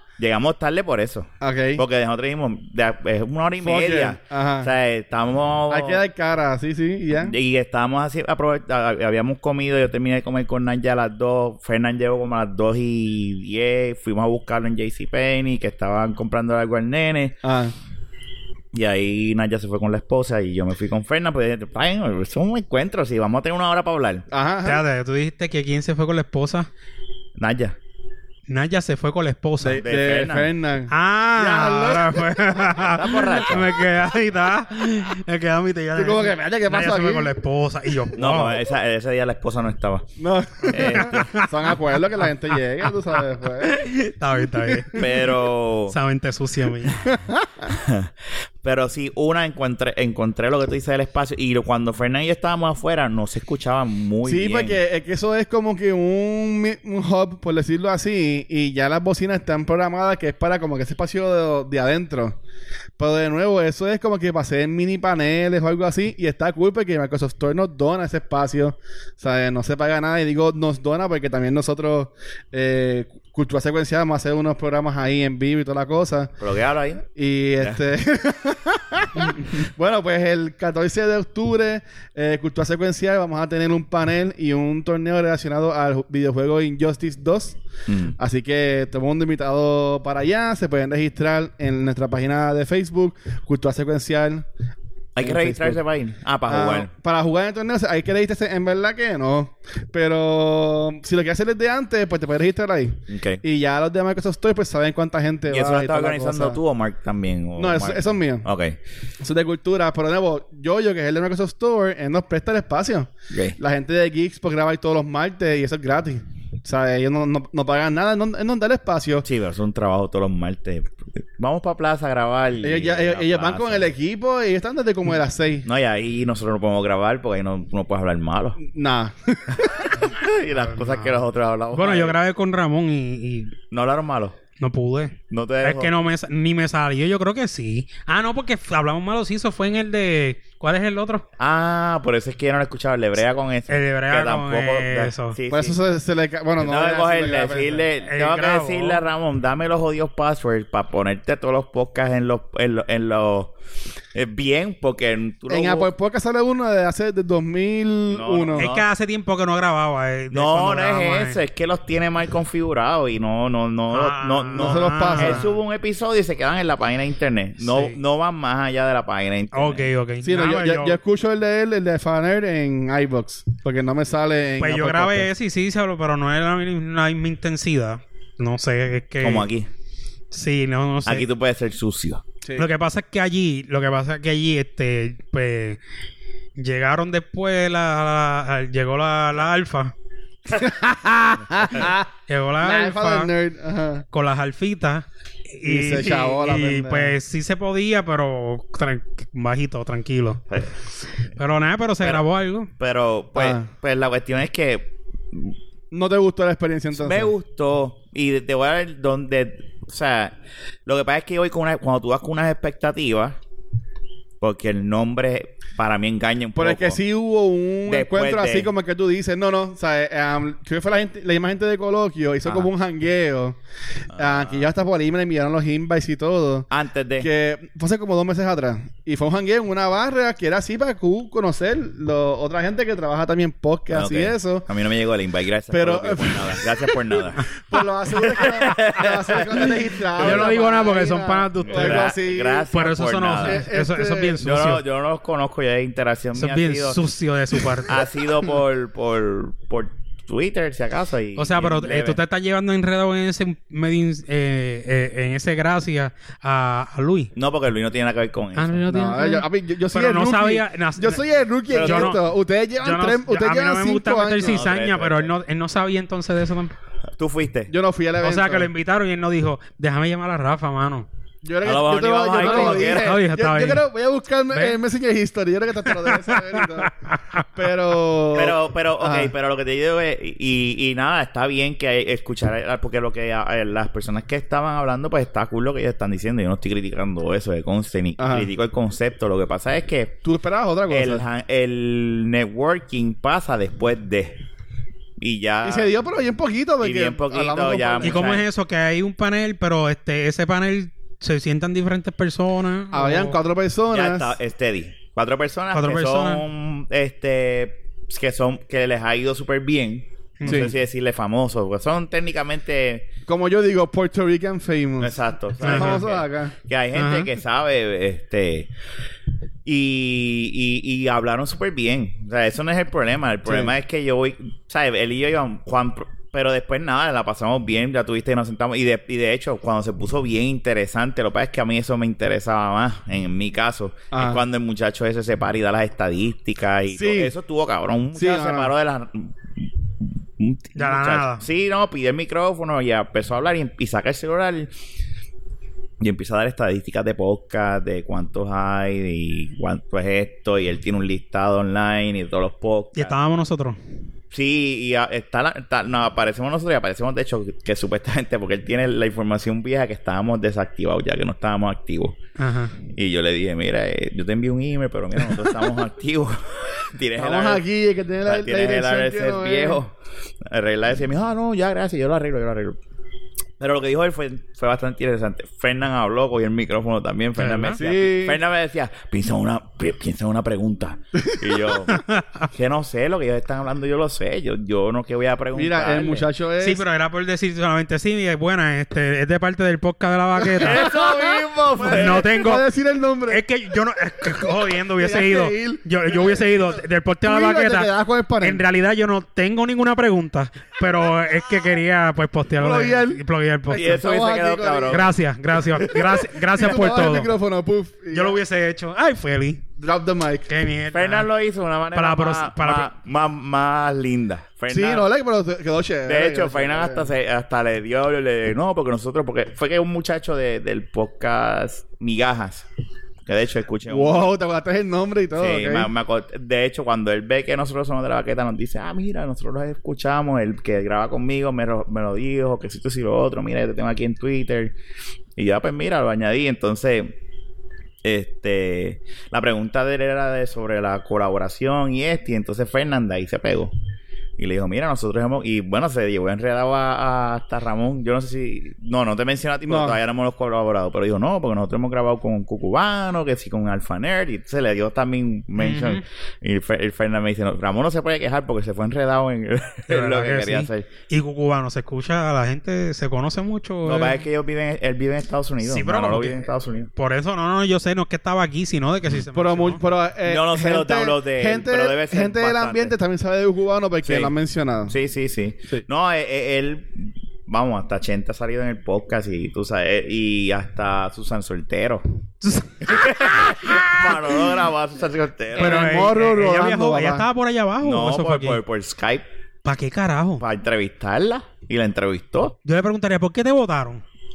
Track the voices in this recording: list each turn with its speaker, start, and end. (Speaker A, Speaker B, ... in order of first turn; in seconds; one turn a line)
Speaker A: 0.2-6.0
Speaker B: 1.4-1.8
Speaker B: 3.6-4.7
Speaker B: 5.7-7.3
Speaker A: 7.1-17.4
Speaker B: 17.4-17.7
Speaker A: 18.7-24.2
Speaker B: 24.3-24.8
Speaker C: 24.6-26.7
Speaker A: 27.4-27.8
Speaker C: 28.5-29.8
Speaker B: 29.6-32.8
Speaker A: 29.8-30.5
Speaker C: 30.9-38.6
Speaker A: 32.9-33.7
Speaker B: 36.0-37.3
Speaker A: 38.1-40.1
Speaker B: 40.2-43.8
Speaker C: 40.7-41.8
Speaker A: 40.7-41.3
Speaker C: 42.8-45.1
Speaker B: 44.5-45.1
Speaker A: 44.9-46.0
Speaker C: 45.9-47.0
Speaker B: 47.0-47.7
Speaker A: 47.6-54.8
Speaker B: 54.2-62.4
Speaker B: 63.0-76.3
Speaker A: 76.4-77.0
Speaker B: 77.1-87.6
Speaker A: 87.9-88.2
Speaker B: 88.2-94.5
Speaker A: 95.2-96.9
Speaker B: 95.2-95.8
Speaker B: 96.5-106.6
Speaker A: 103.1-103.4
Speaker A: 105.5-108.8
Speaker B: 107.6-108.5
Speaker B: 109.2-119.2
Speaker A: 113.3-113.6
Speaker A: 119.2-123.9
Speaker B: 122.6-125.7
Speaker A: 125.6-128.6
Speaker B: 128.6-129.9
Speaker A: 129.8-132.2
Speaker C: 130.6-131.1
Speaker C: 131.7-133.5
Speaker A: 133.7-134.3
Speaker C: 134.6-141.2
Speaker A: 135.3-135.9
Speaker A: 141.4-145.8
Speaker C: 143.7-145.3
Speaker B: 145.5-147.9
Speaker A: 146.6-153.5
Speaker C: 148.0-149.0
Speaker A: 154.1-155.9
Speaker B: 155.5-158.7
Speaker A: 158.1-158.8
Speaker C: 158.6-161.4
Speaker A: 160.3-169.9
Speaker C: 163.9-165.4
Speaker B: 164.5-165.5
Speaker C: 167.6-168.0
Speaker C: 169.5-171.0
Speaker B: 170.2-175.3
Speaker C: 174.6-179.5
Speaker A: 179.2-179.7
Speaker C: 180.3-181.2
Speaker A: 181.0-182.2
Speaker C: 182.5-185.8
Speaker C: 186.6-189.9
Speaker B: 190.5-192.1
Speaker C: 192.3-193.3
Speaker B: 192.6-194.1
Speaker C: 194.1-200.4
Speaker B: 195.6-197.1
Speaker A: 200.5-200.9
Speaker C: 201.3-202.7
Speaker A: 202.8-205.5
Speaker B: 203.3-203.7
Speaker B: 205.9-207.3
Speaker A: 206.9-213.4
Speaker A: 214.4-217.0
Speaker B: 216.5-223.6
Speaker A: 217.9-218.7
Speaker A: 224.1-224.7
Speaker B: 224.2-226.7
Speaker A: 226.7-227.3
Speaker B: 227.2-234.7
Speaker A: 233.9-237.4
Speaker B: 235.7-237.1
Speaker B: 237.7-242.7
Speaker C: 237.7-238.4
Speaker A: 238.2-240.6
Speaker C: 239.5-242.1
Speaker A: 241.6-243.6
Speaker C: 242.7-244.8
Speaker B: 243.4-244.4
Speaker A: 244.4-247.0
Speaker C: 246.3-248.0
Speaker A: 247.8-252.2
Speaker C: 251.4-257.3
Speaker A: 257.3-258.8
Speaker C: 258.6-261.2
Speaker B: 258.9-264.6
Speaker A: 261.7-262.2
Speaker C: 261.7-262.2
Speaker C: 262.8-266.7
Speaker A: 264.4-265.3
Speaker A: 267.1-267.7
Speaker B: 267.7-268.7
Speaker C: 268.2-271.1
Speaker B: 271.4-279.3
Speaker A: 271.6-273.1
Speaker C: 272.3-273.8
Speaker C: 274.5-274.8
Speaker C: 275.9-277.4
Speaker A: 278.3-290.1
Speaker B: 288.2-288.5
Speaker B: 290.2-291.2
Speaker A: 290.9-294.4
Speaker A: 295.2-295.9
Speaker B: 295.6-298.3
Speaker A: 296.8-298.4
Speaker C: 298.0-303.4
Speaker B: 302.9-304.3
Speaker A: 303.9-313.1
Speaker C: 305.7-306.4
Speaker C: 310.4-310.7
Speaker B: 310.4-310.7
Speaker B: 313.3-316.5
Speaker A: 315.0-318.7
Speaker C: 315.6-316.0
Speaker C: 316.9-317.3
Speaker A: 319.6-344.7
Speaker B: 323.5-323.7
Speaker B: 334.1-334.4
Speaker B: 336.9-337.3
Speaker B: 338.1-338.7
Speaker C: 340.8-341.4
Speaker A: 346.0-353.1
Speaker C: 352.9-353.8
Speaker A: 354.3-362.2
Speaker C: 362.4-362.8
Speaker A: 362.9-367.6
Speaker B: 367.2-369.8
Speaker A: 368.2-372.8
Speaker A: 373.6-386.3
Speaker C: 377.4-377.8
Speaker B: 377.8-378.4
Speaker B: 381.2-381.4
Speaker C: 381.9-382.4
Speaker B: 385.5-386.8
Speaker C: 386.6-390.9
Speaker A: 390.6-392.3
Speaker B: 390.6-393.4
Speaker C: 391.9-392.6
Speaker C: 393.3-397.9
Speaker B: 394.8-398.6
Speaker C: 398.4-403.9
Speaker B: 402.6-405.1
Speaker A: 403.7-405.1
Speaker C: 404.9-407.3
Speaker A: 405.7-406.2
Speaker B: 406.5-408.4
Speaker C: 408.1-409.6
Speaker B: 409.8-410.5
Speaker C: 410.5-411.3
Speaker A: 410.9-415.1
Speaker C: 411.9-412.9
Speaker B: 414.7-417.1
Speaker A: 416.1-422.6
Speaker A: 423.2-424.3
Speaker B: 423.9-425.9
Speaker A: 425.3-434.7
Speaker A: 435.4-437.2
Speaker A: 438.0-443.7
Speaker A: 444.4-460.9
Speaker B: 449.7-450.0
Speaker C: 455.6-456.0
Speaker C: 459.9-464.2
Speaker A: 463.8-466.9
Speaker C: 465.6-466.4
Speaker C: 466.9-469.8
Speaker B: 469.3-474.9
Speaker A: 470.2-472.9
Speaker A: 474.0-474.3
Speaker A: 474.9-482.0
Speaker C: 482.4-484.3
Speaker A: 482.8-485.9
Speaker B: 485.6-487.3
Speaker C: 485.6-488.6
Speaker A: 487.8-489.2
Speaker C: 489.6-490.4
Speaker A: 490.4-492.6
Speaker C: 492.6-494.0